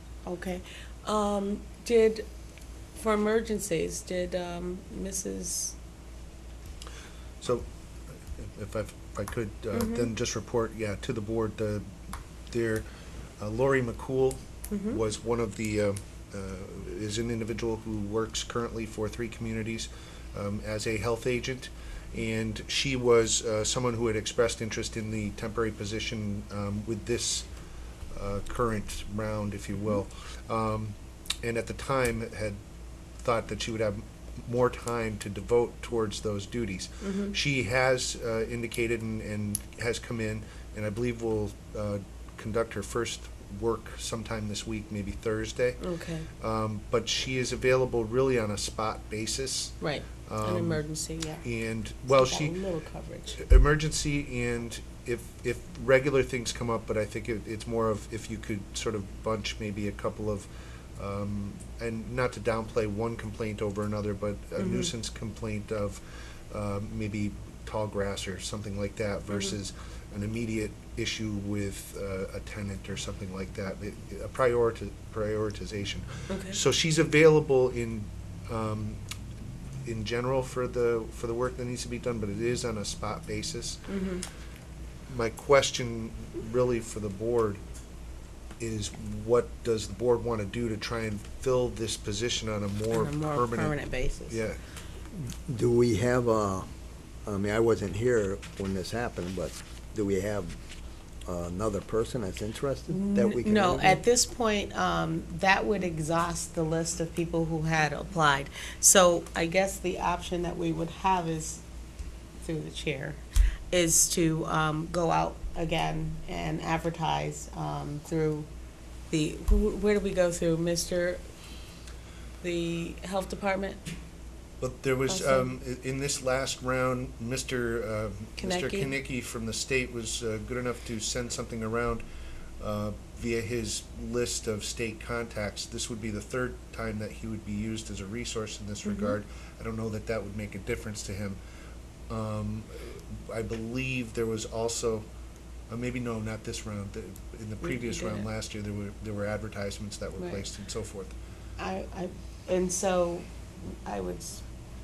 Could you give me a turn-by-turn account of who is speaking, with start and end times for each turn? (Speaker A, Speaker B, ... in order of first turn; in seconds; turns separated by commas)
Speaker A: 0.2-2.2, Speaker A: 3.0-5.7, Speaker B: 8.3-11.8, Speaker A: 9.7-10.1, Speaker B: 12.5-12.8, Speaker B: 13.4-27.5, Speaker A: 14.7-15.0, Speaker B: 28.1-32.6, Speaker B: 33.2-45.8, Speaker A: 37.0-37.4, Speaker A: 45.8-46.3, Speaker B: 46.4-50.8, Speaker A: 49.8-51.4, Speaker B: 51.4-52.5, Speaker A: 52.1-53.4, Speaker B: 53.4-79.0, Speaker A: 64.6-64.9, Speaker A: 76.3-76.6, Speaker B: 79.8-83.8, Speaker A: 83.9-84.2, Speaker B: 85.1-87.6, Speaker B: 88.6-93.8, Speaker A: 92.9-94.4, Speaker B: 94.3-94.6, Speaker C: 95.5-96.7, Speaker C: 97.2-100.5, Speaker C: 101.2-104.0, Speaker A: 102.9-111.6, Speaker A: 112.4-113.2, Speaker A: 113.7-118.5, Speaker A: 119.1-121.2, Speaker A: 122.4-123.8, Speaker B: 124.6-132.0, Speaker A: 125.1-125.5, Speaker A: 128.4-128.9, Speaker B: 132.6-141.4, Speaker A: 138.8-139.2, Speaker B: 142.1-145.1, Speaker B: 145.7-151.2, Speaker A: 147.6-148.3, Speaker A: 150.2-150.4, Speaker A: 151.6-154.4